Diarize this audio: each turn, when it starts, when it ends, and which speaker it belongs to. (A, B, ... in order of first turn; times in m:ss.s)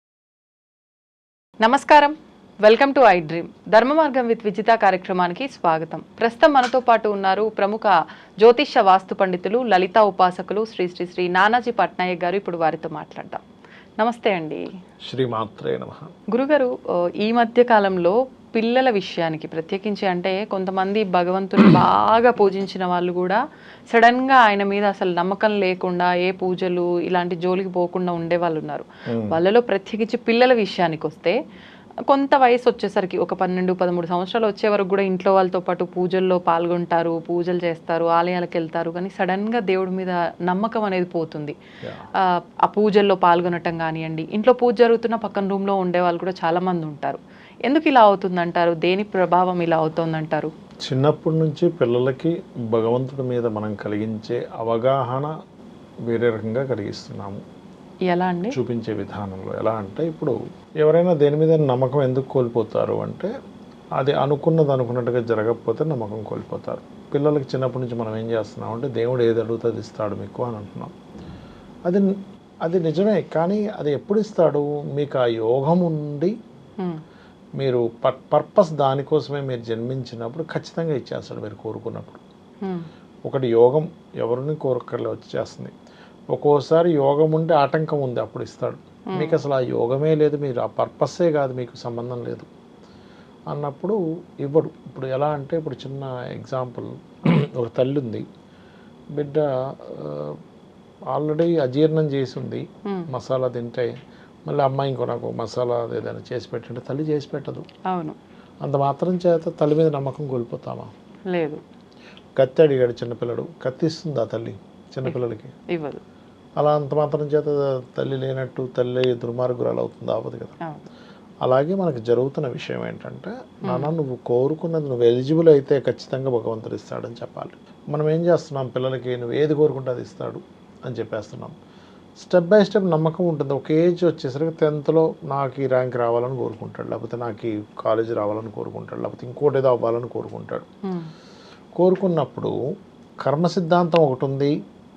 0:01.6-0:13.4 A
0:14.0-0:14.6 A
0:15.0-0:16.1 B
0:16.3-0:23.4 A
0:23.9-0:31.4 A
0:29.1-0:29.4 B
0:32.1-0:41.6 A
0:42.7-0:50.5 A
0:50.8-0:55.3 B
0:56.1-0:57.4 B
0:58.1-0:58.6 A
0:58.5-1:03.3 B
1:04.0-1:10.9 B
1:12.7-1:16.3 B
1:17.6-1:22.2 B
1:23.3-1:25.7 B
1:26.3-1:32.5 B
1:29.1-1:29.4 A
1:33.5-1:38.2 B
1:39.2-1:40.4 B
1:41.1-1:43.9 B
1:44.5-1:47.7 B
1:47.9-1:48.2 A
1:48.6-1:50.9 B
1:51.3-1:51.6 A
1:52.4-1:55.6 B
1:55.7-1:56.0 A
1:56.6-2:00.6 B
2:01.4-2:11.6 B
2:03.7-2:03.9 A
2:12.2-2:20.7 B
2:21.8-2:22.6 B
2:23.2-2:24.5 B